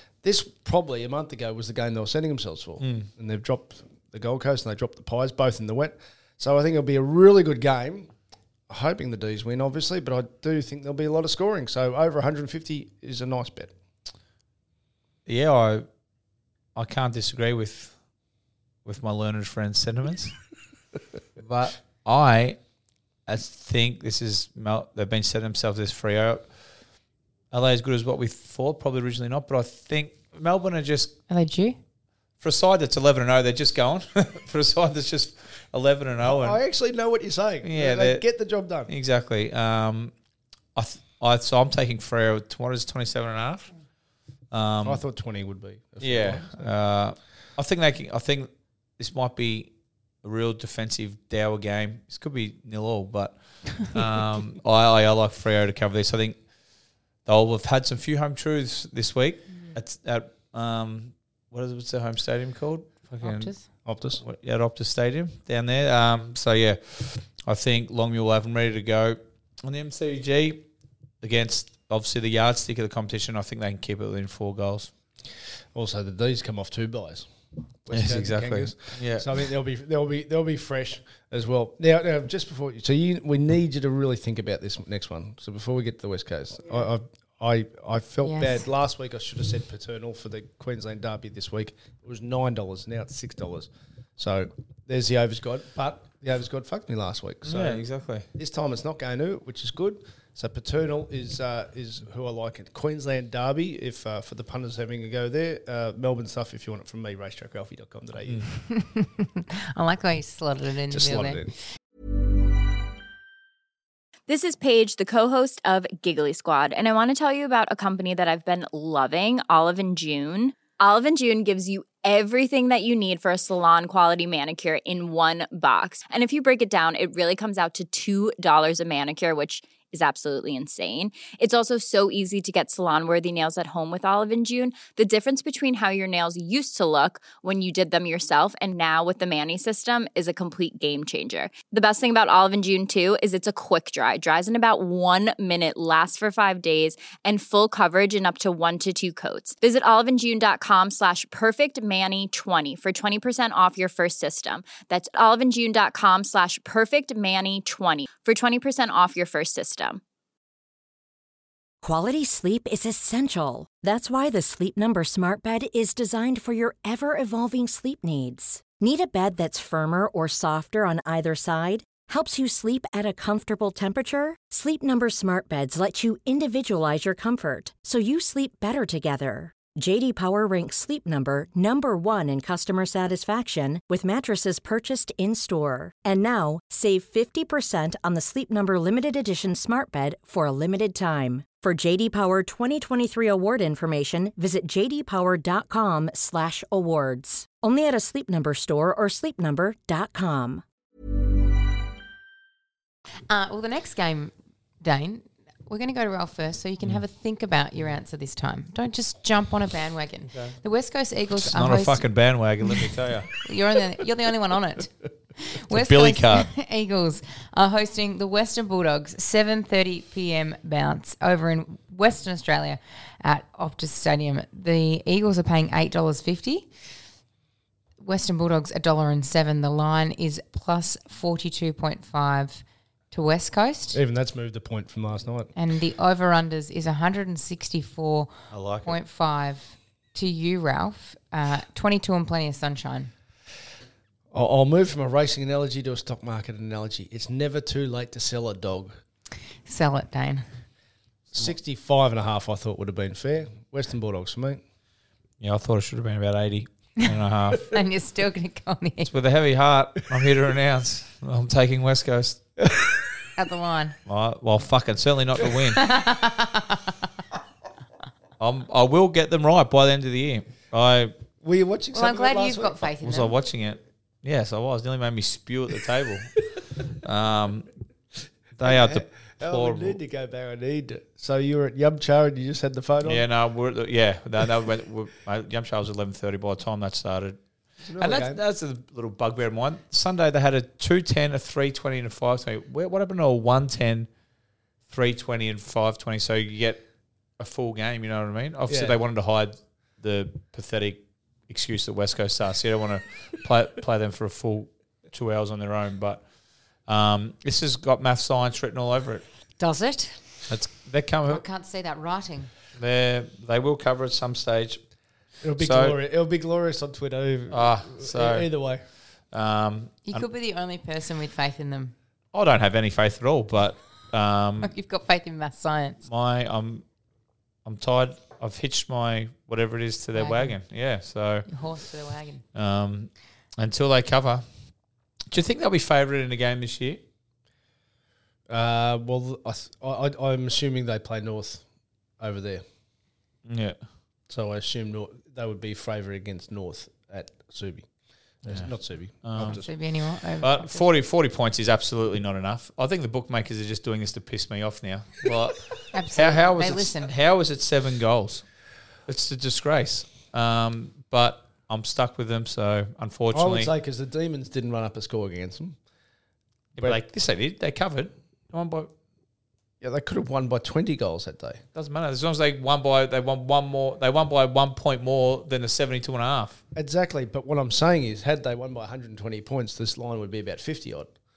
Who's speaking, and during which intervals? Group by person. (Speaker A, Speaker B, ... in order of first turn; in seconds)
Speaker A: 0.2-8.1, 8.7-13.7, 36.2-38.9, 44.8-46.7, 63.9-64.2, 75.7-77.3, 77.8-108.5, 110.9-111.5, 233.9-235.5, 244.3-249.0, 251.3-254.6, 262.6-262.9, 271.4-272.8, 278.6-283.2, 287.8-288.4, 298.7-299.0, 315.4-318.8, 338.5-341.6, 342.2-342.6, 344.3-347.9, 348.4-349.7, 363.3-365.8, 369.8-371.6, 376.7-381.1
Speaker B: 2.8-3.1, 15.2-15.8, 16.8-17.9, 18.8-20.4, 21.4-22.6, 23.3-26.5, 27.5-31.1, 32.4-36.6, 37.6-38.2, 38.9-40.1, 40.7-43.7, 44.5-45.0, 46.0-49.7, 50.2-56.4, 57.2-63.5, 64.2-70.7, 71.2-74.9, 77.9-79.4, 97.4-98.3, 210.3-210.6, 211.4-213.3, 215.7-216.5, 238.5-238.9, 255.4-257.7, 259.0-262.4, 264.1-265.8, 268.4-271.1, 273.0-277.7, 278.6-280.0, 283.0-287.4, 287.9-294.1, 294.9-296.8, 297.4-306.2, 306.9-309.2, 310.5-311.4, 312.7-314.8, 315.6-316.0, 317.5-318.5, 319.3-320.2, 322.3-324.7, 326.1-326.8, 327.6-331.5, 332.5-334.4, 335.3-337.0, 343.4-343.8, 349.2-349.6, 350.4-358.4, 359.1-363.7, 366.8-368.9, 371.7-376.6
Speaker C: 31.3-31.8, 63.2-63.6, 88.2-88.6, 108.7-111.5, 203.3-212.1, 212.7-226.7, 228.0-234.0, 235.5-238.3, 238.8-243.1, 249.7-250.4, 257.6-259.1, 263.4-264.0, 265.7-267.0, 271.9-273.3, 309.6-310.2, 311.3-312.5, 320.1-321.9, 324.6-326.0, 330.1-330.6, 331.5-332.4, 349.4-350.9, 355.9-357.1
Speaker D: 114.3-160.0
Speaker E: 161.8-200.6